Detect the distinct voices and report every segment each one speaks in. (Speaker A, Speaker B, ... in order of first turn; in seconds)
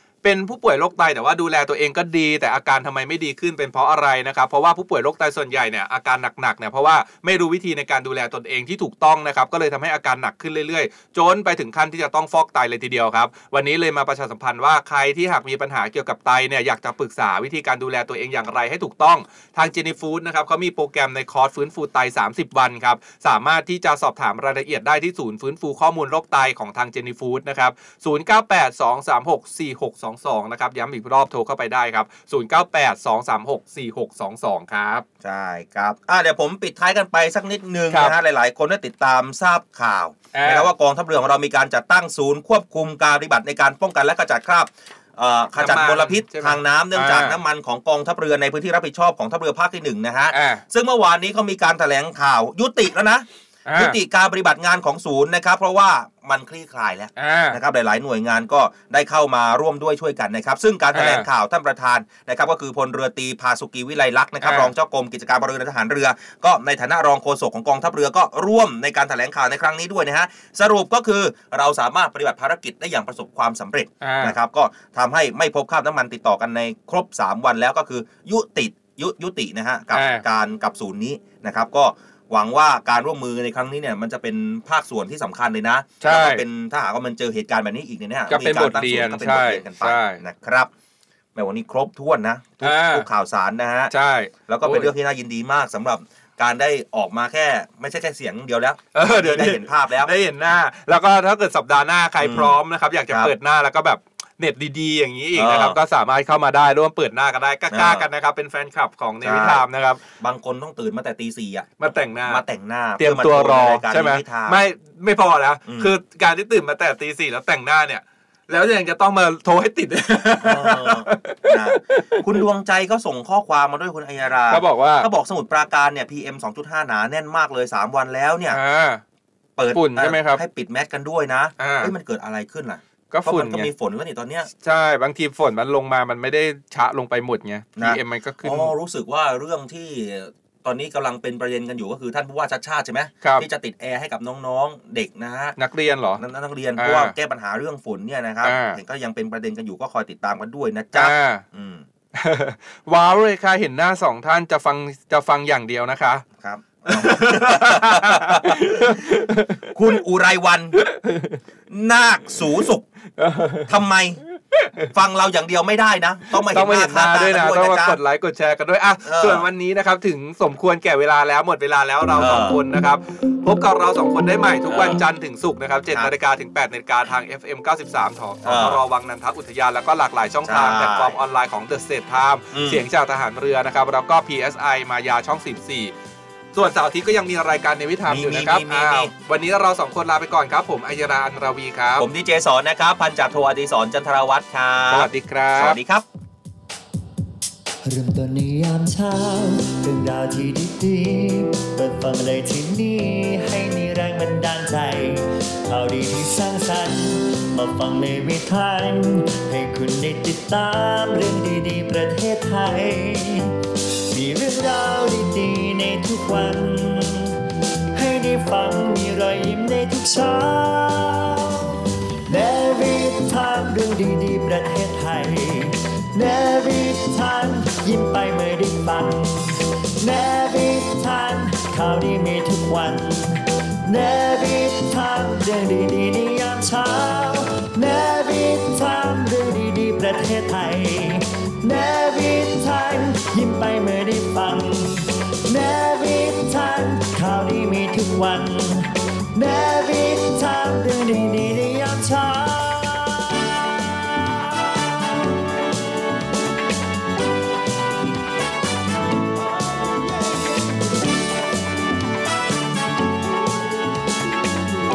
Speaker A: 0.2-35.0, 37.9-38.1, 40.3-40.7, 45.6-47.4, 50.3-50.6, 53.7-54.0, 57.2-57.6, 60.9-61.3, 64.4-64.7, 74.0-74.3, 79.9-80.2, 86.0-86.4, 88.3-90.2, 92.6-93.1, 93.9-94.9, 98.9-110.0, 111.8-112.4, 113.0-122.4, 124.5-125.1, 128.5-129.0, 129.7-130.4, 131.6-131.9, 133.1-133.7, 134.6-138.7, 145.6-146.2, 146.8-147.1, 148.4-148.8, 150.9-151.4, 152.1-156.2, 156.9-159.6, 160.8-161.4, 163.2-163.7, 164.6-164.9, 166.5-185.9, 186.5-192.1, 194.9-195.8
Speaker B: 35.2-90.7, 91.3-93.9, 94.5-100.1, 102.2-102.5, 105.3-105.8, 107.7-108.0, 109.2-109.6, 110.2-111.7, 112.3-114.6, 115.7-115.9, 120.4-128.6, 129.6-134.5, 137.8-145.5, 146.2-151.8, 156.4-159.0, 159.7-160.8, 161.7-162.8, 163.7-164.2, 164.9-168.0, 169.0-169.4, 172.2-172.6, 174.7-175.0, 178.4-178.8, 180.4-181.2, 182.5-182.8, 188.1-189.1, 192.0-196.0
Speaker C: 197.8-213.6, 214.1-217.4, 217.9-255.7, 259.2-260.8